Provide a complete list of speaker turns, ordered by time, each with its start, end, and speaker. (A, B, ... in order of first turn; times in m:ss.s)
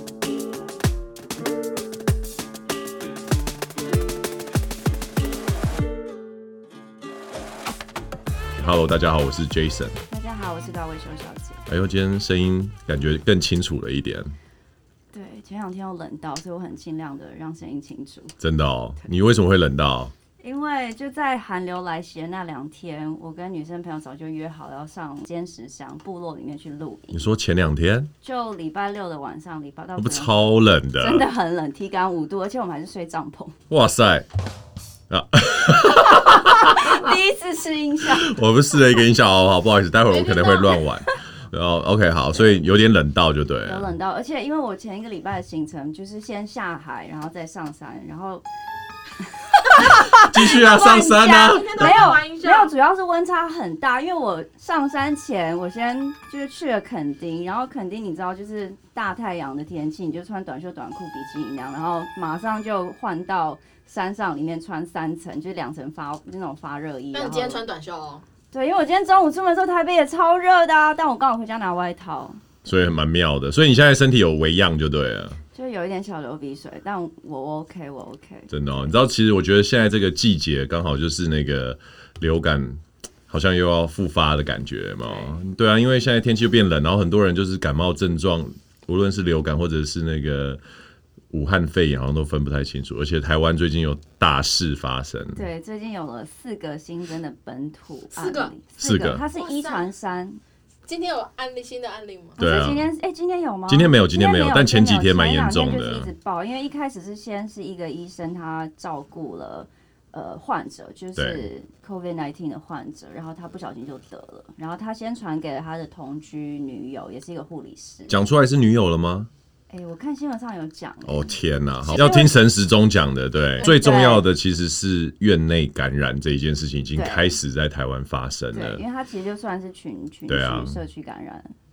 0:08.6-0:10.0 A
0:10.1-0:11.6 B
0:11.7-0:14.3 A
0:15.1-0:18.4 B
0:18.4-0:20.1 A
0:19.0-0:19.3 B
0:20.4-0:27.2 B
0:27.1-0:28.1 A
0:28.2-0:30.3 B
0:30.0-0:31.2 A
0:31.0-0:33.6 B
0:33.7-0:34.3 A
0:35.1-0:37.1 A
0:35.8-0:38.4 B
0:38.1-0:43.9 A
0:40.1-0:40.8 C
0:42.3-0:42.6 B
0:43.6-0:48.4 B
0:49.2-1:07.6 B
0:49.8-0:52.2 A
0:50.9-0:52.7 C
1:07.1-1:08.2 C
1:08.5-1:12.4 B
1:12.6-1:15.4 A
1:15.5-1:18.9 B
1:18.5-1:30.6 A
1:31.3-1:35.4 A
1:35.3-1:40.4 B
1:38.1-1:38.6 C
1:38.8-1:39.2 A
1:39.4-1:39.9 C
1:40.9-1:42.4 C
1:42.4-1:58.2 B
1:42.4-1:42.9 A
1:43.7-1:46.1 A
1:51.2-1:51.5 A
1:58.1-1:59.3 A
1:59.7-2:02.4 B
2:01.0-2:08.8 A
2:03.6-2:04.3 B
2:07.0-2:07.4 B
2:08.5-2:11.5 B
2:10.3-2:10.8 A